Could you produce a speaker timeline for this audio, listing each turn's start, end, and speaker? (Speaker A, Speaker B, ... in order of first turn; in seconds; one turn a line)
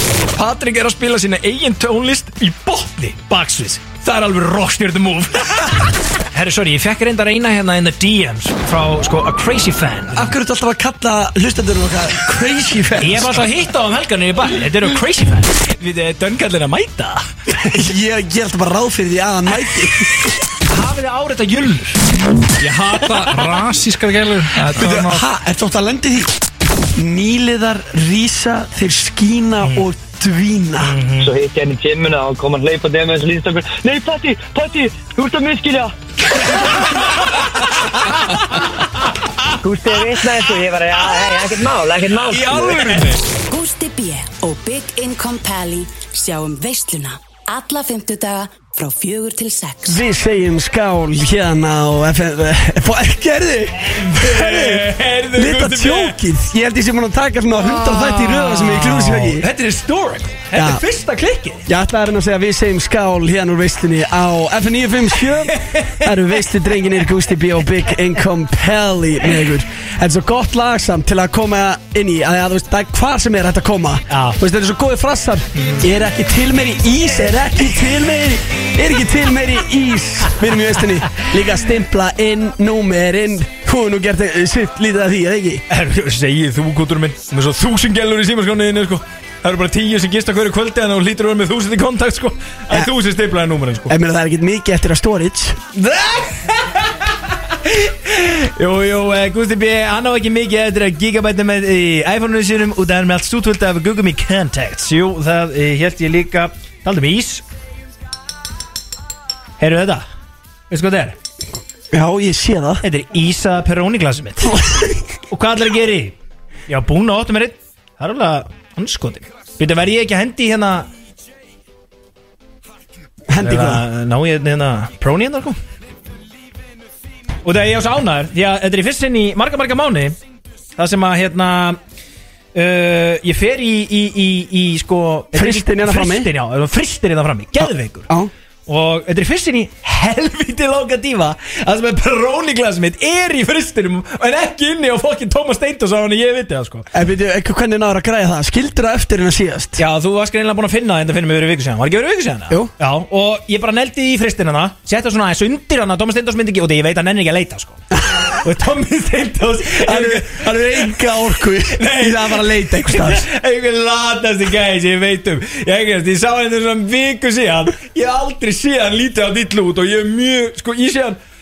Speaker A: 0.3-10.3
Speaker B: 10.1-13.4
Speaker A: 13.0-17.2
Speaker B: 17.5-20.3
Speaker A: 20.7-22.0
Speaker C: 22.6-25.2
Speaker B: 24.7-26.3
Speaker B: 26.9-31.0
Speaker A: 30.8-31.3
Speaker D: 31.2-35.9
Speaker D: 39.6-43.1
Speaker E: 43.5-50.0
Speaker B: 49.8-59.5
Speaker A: 53.8-56.2
Speaker A: 57.6-61.7
Speaker B: 60.5-60.8
Speaker B: 61.7-85.6
Speaker A: 65.5-66.4
Speaker A: 74.1-74.4
Speaker A: 75.6-75.8
Speaker A: 85.7-93.9
Speaker B: 93.9-95.6
Speaker A: 95.7-107.4
Speaker A: 109.6-110.0
Speaker A: 110.7-111.1
Speaker B: 111.9-112.8
Speaker A: 112.8-114.6
Speaker B: 114.4-114.9
Speaker A: 115.3-116.1
Speaker A: 116.7-120.9
Speaker B: 123.3-123.8
Speaker A: 123.4-125.6
Speaker A: 127.4-130.2
Speaker A: 130.8-131.8
Speaker A: 132.5-138.1
Speaker B: 135.3-136.3
Speaker A: 138.7-146.9
Speaker B: 146.9-149.8
Speaker A: 149.8-161.0
Speaker B: 158.1-158.4
Speaker B: 159.7-163.2
Speaker A: 161.6-171.2